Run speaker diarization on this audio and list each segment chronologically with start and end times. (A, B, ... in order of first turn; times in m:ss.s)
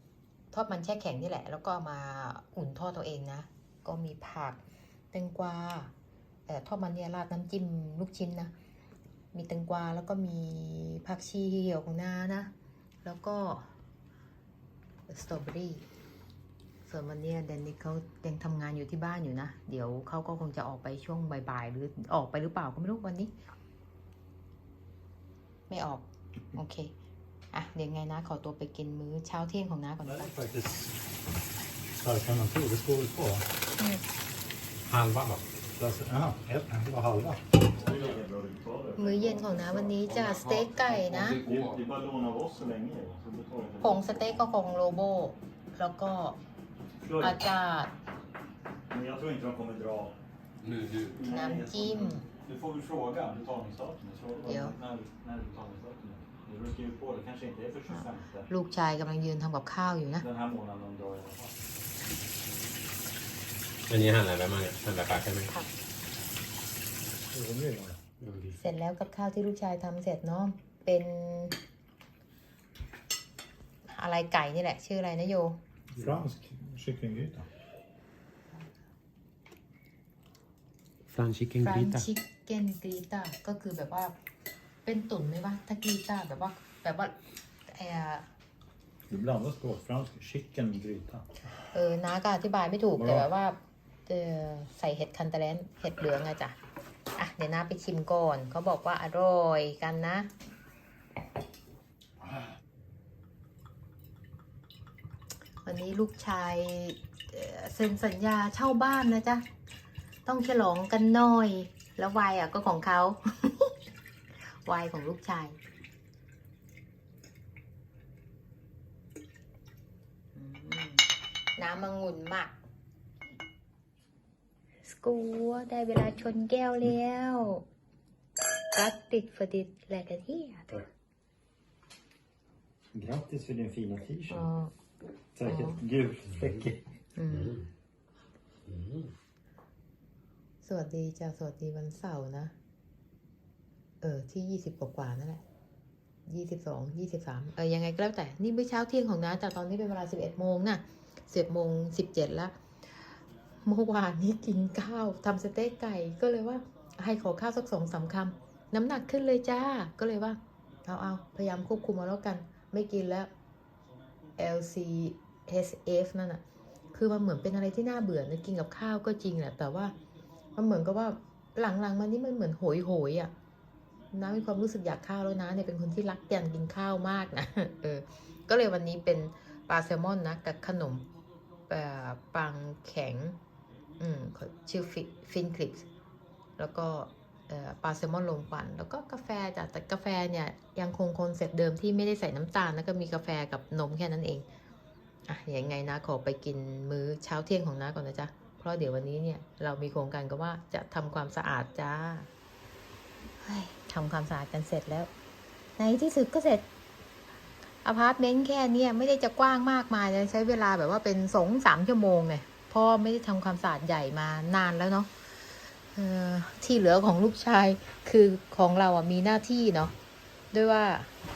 0:00.5-0:04.6 A
0:05.1-0:05.9 A
0:06.5-0:08.5 A
0:09.3-0:12.5 A
0:13.0-0:13.7 A
0:15.1-0:15.8 A
0:16.8-0:23.3 A
0:25.7-0:26.9 A
0:27.5-0:30.3 A
0:30.1-0:30.9 B
0:32.0-0:33.4 B
0:34.8-0:35.4 C
0:35.8-0:37.4 B
0:37.7-0:40.1 D
0:39.0-0:41.4 A
0:40.1-0:41.8 C
0:41.3-0:44.3 D
0:43.8-0:46.4 A
0:47.0-0:47.4 D
0:47.2-0:47.9 A
0:48.9-0:50.1 D
0:50.6-0:51.1 C
0:51.0-0:58.5 D
0:51.3-0:52.2 A
0:54.4-0:54.8 A
0:57.9-1:00.2 A
1:00.2-1:01.5 D
1:03.9-1:05.5 C
1:07.3-1:08.0 B
1:08.2-1:08.5 C
1:08.6-1:11.6 A
1:13.9-1:15.6 A
1:16.0-1:17.5 B
1:21.1-1:22.1 C
1:21.6-1:24.1 A
1:24.8-1:27.1 A
1:27.7-1:28.3 A
1:29.1-1:31.3 B
1:31.7-1:36.6 A
1:32.9-1:33.3 B
1:37.2-1:40.3 A
1:45.6-1:49.4 A
1:50.2-1:53.7 A
1:54.6-1:55.6 A
2:00.3-2:01.0 A
2:01.6-2:02.6 A
2:04.8-2:07.6 A
2:08.7-2:10.8 A
2:12.9-2:14.5 B
2:14.3-2:14.7 A
2:15.4-2:16.8 B
2:15.4-2:15.8 A
2:17.2-2:17.6 A
2:17.3-2:17.6 C
2:18.7-2:19.1 C
2:20.6-2:22.5 A
2:24.0-2:25.4 A
2:26.3-2:32.5 A
2:33.6-2:43.3 A
2:44.4-2:46.4 A
2:46.9-2:49.9 A
2:50.5-2:53.3 A
2:54.1-3:01.1 A
3:01.7-3:03.4 A
3:04.0-3:05.8 A
3:06.6-3:14.4 A
3:15.3-3:22.3 A
3:23.4-3:25.1 A
3:25.8-3:26.7 A
3:27.8-3:35.1 A
3:35.9-3:39.9 A
3:40.5-3:41.1 A